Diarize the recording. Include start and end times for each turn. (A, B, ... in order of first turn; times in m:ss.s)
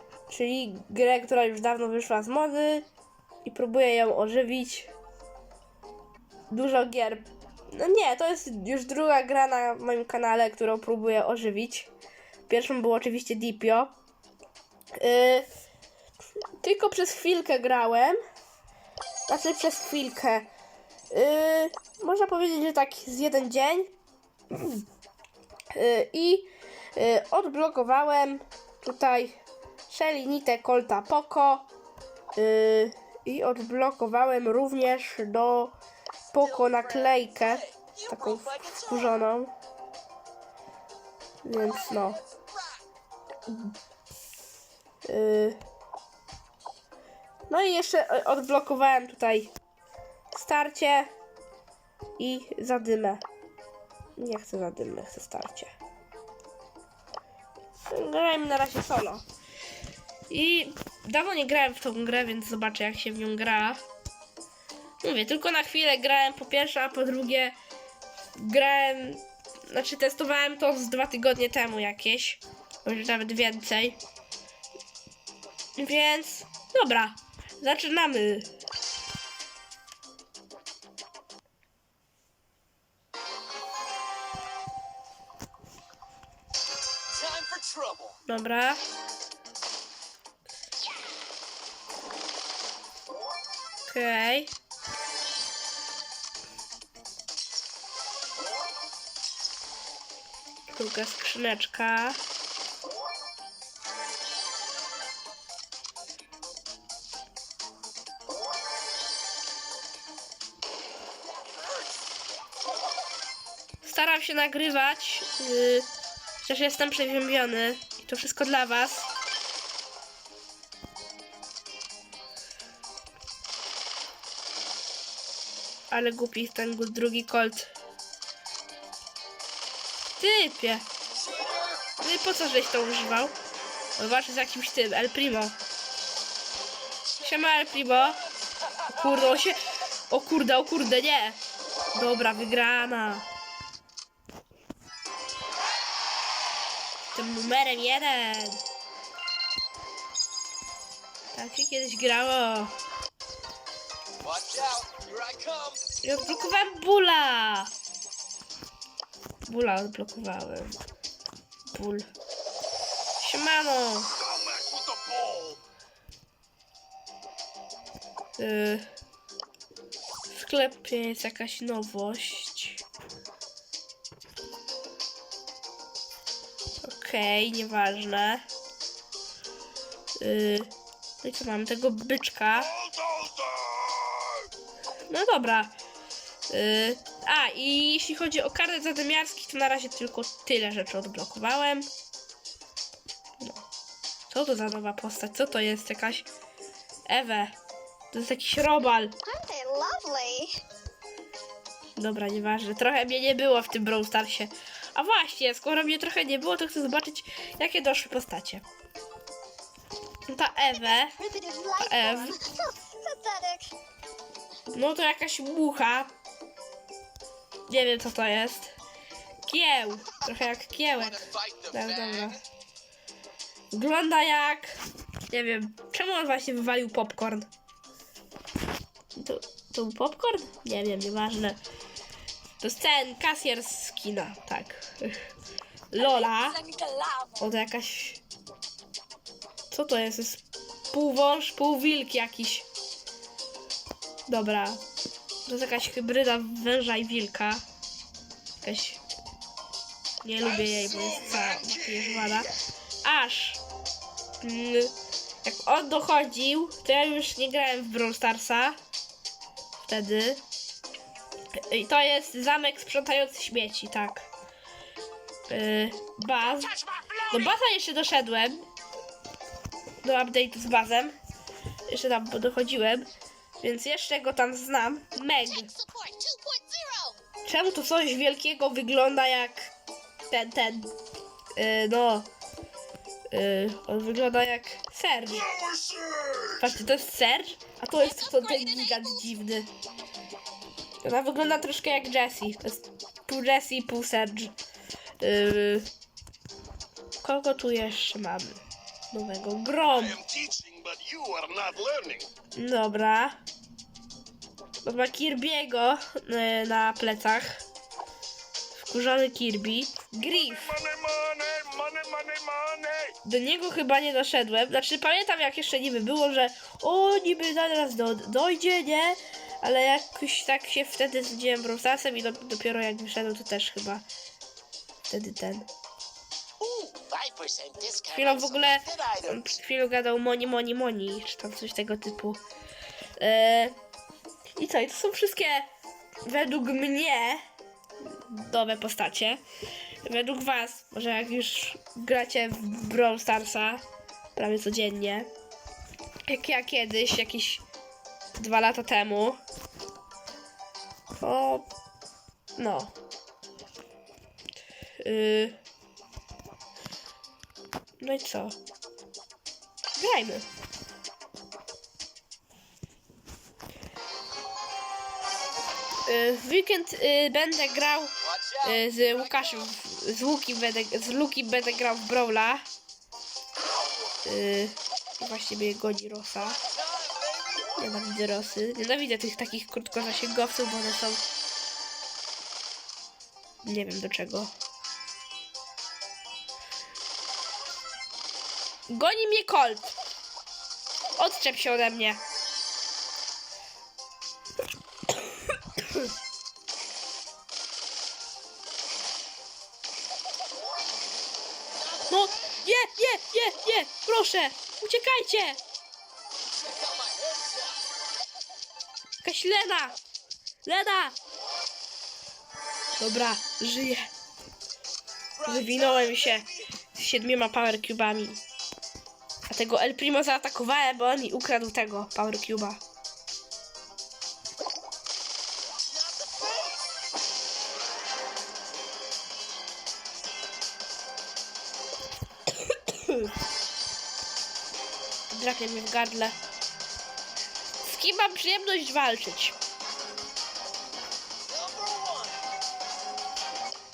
0:00.3-0:02.9 A
0:03.4-0:04.9 A
0:06.5-0:11.9 A
0:12.5-0:13.9 A
0:14.9-0:15.5 A
0:16.6-0:18.2 A
0:19.3-0:20.5 A
0:21.1-0:23.9 A
0:24.5-0:24.8 A
0:25.7-0:29.4 A
0:29.9-0:31.7 A
0:32.4-0:35.8 A
0:36.3-0:39.5 A
0:36.6-0:39.1 B
0:41.4-0:42.2 A
0:42.0-0:42.8 B
0:43.5-0:43.7 A
0:45.0-0:45.6 A
0:47.5-0:49.5 A
0:50.3-0:51.1 A
0:52.2-0:53.2 A
0:54.2-0:55.7 A
0:57.9-0:59.2 A
1:00.3-1:03.8 A
1:05.0-1:07.6 A
1:08.4-1:14.0 A
1:15.8-1:18.5 A
1:27.1-1:28.2 B
1:28.2-1:28.8 A
1:33.9-1:34.5 A
1:40.7-1:42.2 A
1:53.8-1:55.9 A
1:56.4-1:59.1 A
2:05.9-2:07.7 A
2:10.2-2:10.9 A
2:11.2-2:11.8 B
2:12.0-2:13.4 A
2:14.0-2:15.6 A
2:17.2-2:18.2 A
2:18.9-2:21.4 A
2:21.9-2:23.3 A
2:27.1-2:28.6 A
2:31.3-2:32.7 A
2:34.2-2:35.8 B
2:36.0-2:37.7 A
2:39.4-2:40.8 A
2:41.7-2:42.1 A
2:43.2-2:44.1 A
2:44.2-2:45.6 B
2:48.4-2:48.9 A
2:50.3-2:52.8 A
2:56.8-2:58.4 A
3:00.2-3:02.9 A
3:03.0-3:04.1 B
3:05.1-3:05.8 A
3:06.5-3:11.9 A
3:13.4-3:13.6 A
3:14.3-3:16.3 A
3:17.1-3:17.5 A
3:18.1-3:19.2 A
3:19.2-3:20.6 C
3:22.0-3:28.6 A
3:30.3-3:31.2 A
3:31.1-3:33.8 C
3:31.8-3:32.4 A
3:34.7-3:36.1 A
3:37.7-3:38.7 A
3:39.4-3:42.4 A
3:41.1-3:42.4 B
3:43.7-3:44.8 A
3:45.3-3:47.5 A
3:49.2-3:51.6 A
3:52.6-3:55.3 A
3:55.9-3:56.7 A
3:56.7-3:57.3 C
3:57.4-3:58.2 A
3:59.7-4:02.7 A
4:04.3-4:04.8 A
4:05.5-4:07.6 A
4:08.6-4:09.0 A
4:10.2-4:13.6 A
4:14.4-4:14.9 A
4:15.4-4:18.8 A
4:19.8-4:20.4 A
4:21.5-4:24.3 A
4:25.5-4:28.7 A
4:27.0-4:27.3 B
4:30.0-4:31.2 A
4:31.9-4:33.1 A
4:33.6-4:35.7 A
4:35.7-4:37.2 C
4:35.8-4:37.1 B
4:37.4-4:39.7 A
4:40.3-4:40.9 A
4:41.6-4:42.3 A
4:43.3-4:45.7 A
4:45.7-4:46.5 B
4:46.6-4:49.7 A
4:51.0-4:54.6 A
4:55.2-4:55.9 A
4:57.2-4:58.6 A
4:59.1-5:00.2 A
5:00.2-5:02.3 B
5:02.6-5:03.4 A
5:04.8-5:07.6 A
5:08.8-5:10.8 A
5:11.1-5:13.1 B
5:13.2-5:24.0 A
5:25.0-5:25.7 A
5:26.6-5:29.4 B
5:28.1-5:32.4 A
5:33.2-5:33.8 A
5:34.6-5:35.7 A
5:36.2-5:37.4 A
5:38.0-5:39.4 A
5:40.0-5:43.8 A
5:44.4-5:45.3 A
5:46.3-5:47.6 A
5:48.4-5:49.4 A
5:51.2-5:51.6 A
5:52.6-5:52.9 A
5:55.0-5:55.6 A
5:58.0-5:58.6 A
6:00.0-6:00.5 A
6:06.1-6:12.6 A
6:08.3-6:09.7 B
6:13.6-6:14.1 B
6:14.2-6:16.6 A
6:16.4-6:17.7 B
6:17.8-6:21.2 A
6:23.6-6:24.5 A
6:28.9-6:30.0 A
6:31.2-6:32.2 A
6:42.1-6:45.6 A
6:46.5-6:47.8 B
6:49.2-6:50.0 A
6:50.6-6:51.2 A
6:52.9-6:54.1 A
6:55.4-6:56.6 B
6:55.4-6:58.4 A
6:59.5-7:02.8 A
7:05.9-7:06.8 B
7:12.7-7:13.3 A
7:15.3-7:16.4 A
7:17.8-7:19.6 A
7:21.5-7:22.4 B